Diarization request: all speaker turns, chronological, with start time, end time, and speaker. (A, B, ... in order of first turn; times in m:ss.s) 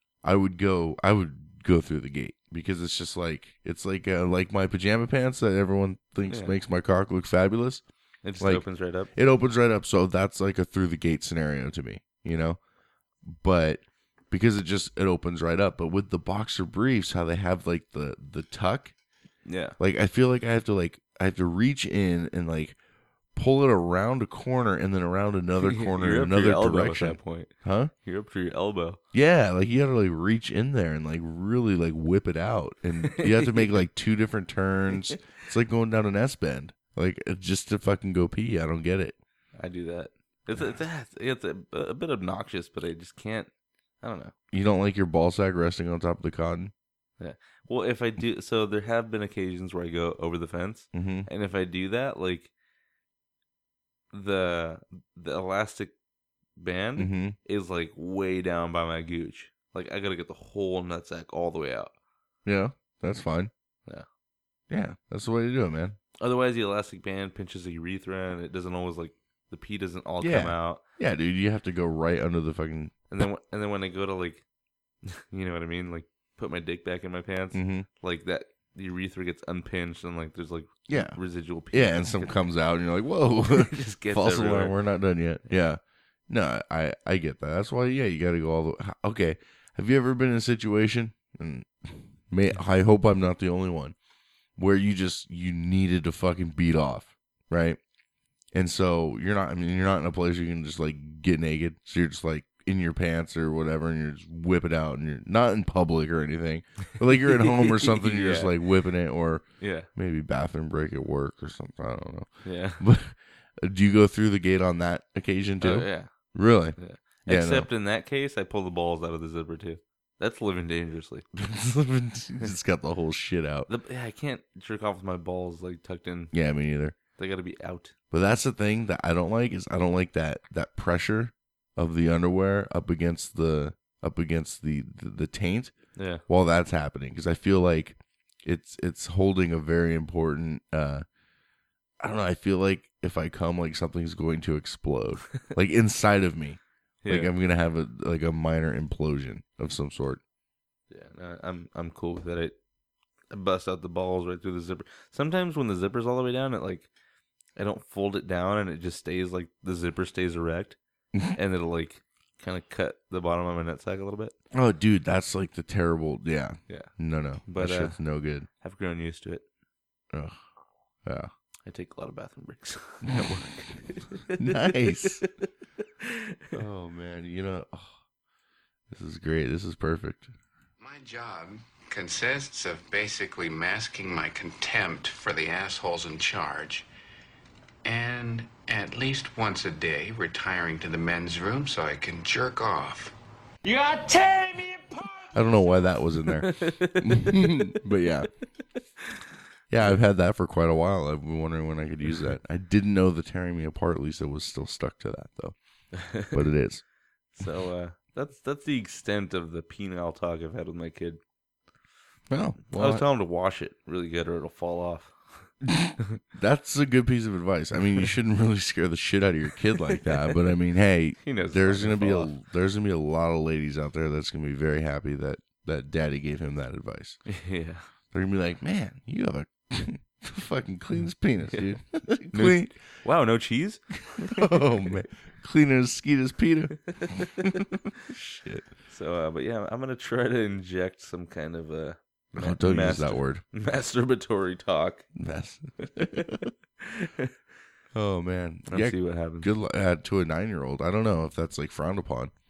0:00.2-0:07.8 A
0:06.3-0:06.6 B
0:08.2-0:09.1 B
0:08.4-0:12.6 A
0:13.2-0:18.9 A
0:19.5-0:19.8 B
0:19.8-0:22.8 A
0:23.4-0:27.9 A
0:25.6-0:27.5 B
0:28.0-0:29.0 B
0:29.1-0:39.2 A
0:33.1-0:33.7 B
0:39.6-0:43.5 B
0:44.0-0:44.3 B
0:44.5-0:46.7 A
0:47.2-0:52.5 B
0:50.9-0:51.3 A
0:54.1-0:55.9 B
0:56.6-1:01.9 B
0:57.0-0:57.4 A
1:02.5-1:03.5 A
1:04.7-1:06.0 A
1:06.2-1:10.8 B
1:10.2-1:13.0 A
1:13.1-1:14.4 B
1:15.0-1:22.4 B
1:17.5-1:17.9 A
1:20.9-1:21.2 A
1:21.7-1:34.0 A
1:23.4-1:24.8 B
1:34.6-1:37.8 A
1:38.5-1:57.7 A
1:47.3-1:48.6 B
1:49.6-1:49.9 B
1:52.4-1:52.8 B
1:55.6-1:56.1 B
1:56.8-2:01.3 B
2:01.4-2:03.7 A
2:03.7-2:06.3 B
2:06.3-2:07.0 A
2:07.2-2:07.9 B
2:08.1-2:15.7 A
2:16.0-2:16.2 B
2:16.3-2:21.0 A
2:22.0-2:30.2 A
2:27.0-2:27.3 B
2:30.9-2:32.6 B
2:33.3-2:36.9 B
2:37.6-2:40.8 B
2:41.3-2:44.4 B
2:44.5-2:48.5 A
2:47.5-2:48.0 B
2:48.6-2:49.4 B
2:50.1-2:50.4 A
2:51.0-2:51.3 A
2:51.7-2:55.5 B
2:54.4-2:55.2 A
2:56.0-2:56.5 B
2:56.5-2:58.0 A
2:58.9-3:00.3 A
3:00.8-3:06.9 C
3:07.8-3:13.2 C
3:15.3-3:18.3 A
3:16.3-3:17.7 B
3:19.7-3:25.6 A
3:26.0-3:26.4 B
3:26.1-3:26.8 A
3:27.3-3:31.2 B
3:32.3-3:33.0 A
3:32.7-3:35.5 B
3:35.6-3:47.2 A
3:39.9-3:40.4 B
3:41.2-3:42.3 B
3:47.3-3:47.8 B
3:48.1-3:52.8 A
3:52.3-3:55.0 B
3:54.2-3:58.7 A
3:57.0-3:57.6 B
3:58.9-4:05.0 B
4:02.3-4:03.4 A
4:05.2-4:06.5 A
4:05.8-4:07.3 B
4:07.9-4:12.3 A
4:08.7-4:09.5 B